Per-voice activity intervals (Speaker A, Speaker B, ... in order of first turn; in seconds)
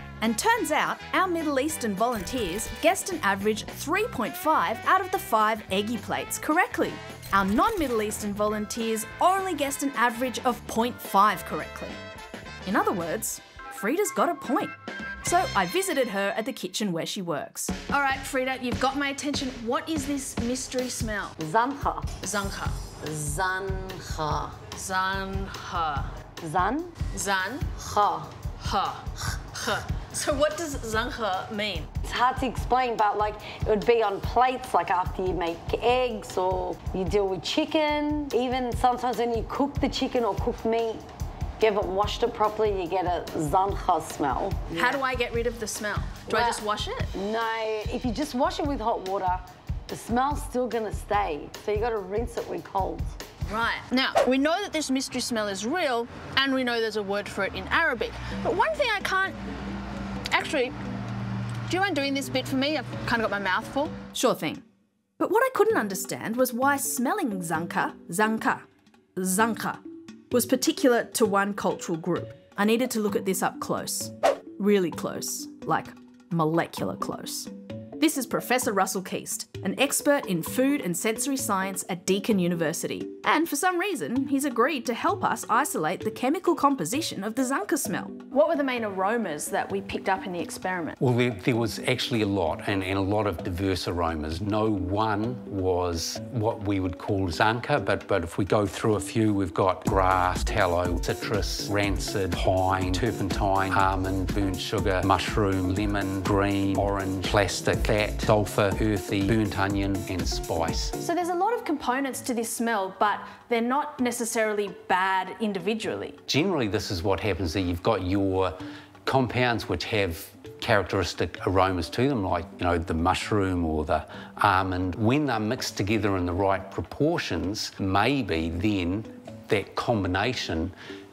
Speaker A: 0.2-12.0, 12.6-21.4, 22.2-22.8, 24.7-26.1, 27.1-27.7, 28.6-31.9, 44.7-47.1, 53.5-59.4, 60.3-60.7, 61.7-64.6, 65.2-91.0, 111.0-116.2
Speaker B: 21.4-22.1, 23.0-24.6, 26.4-26.9, 27.8-28.3, 32.0-41.0, 41.6-45.0, 46.3-46.6, 47.1-53.2
Speaker C: 91.0-111.0, 116.3-130.7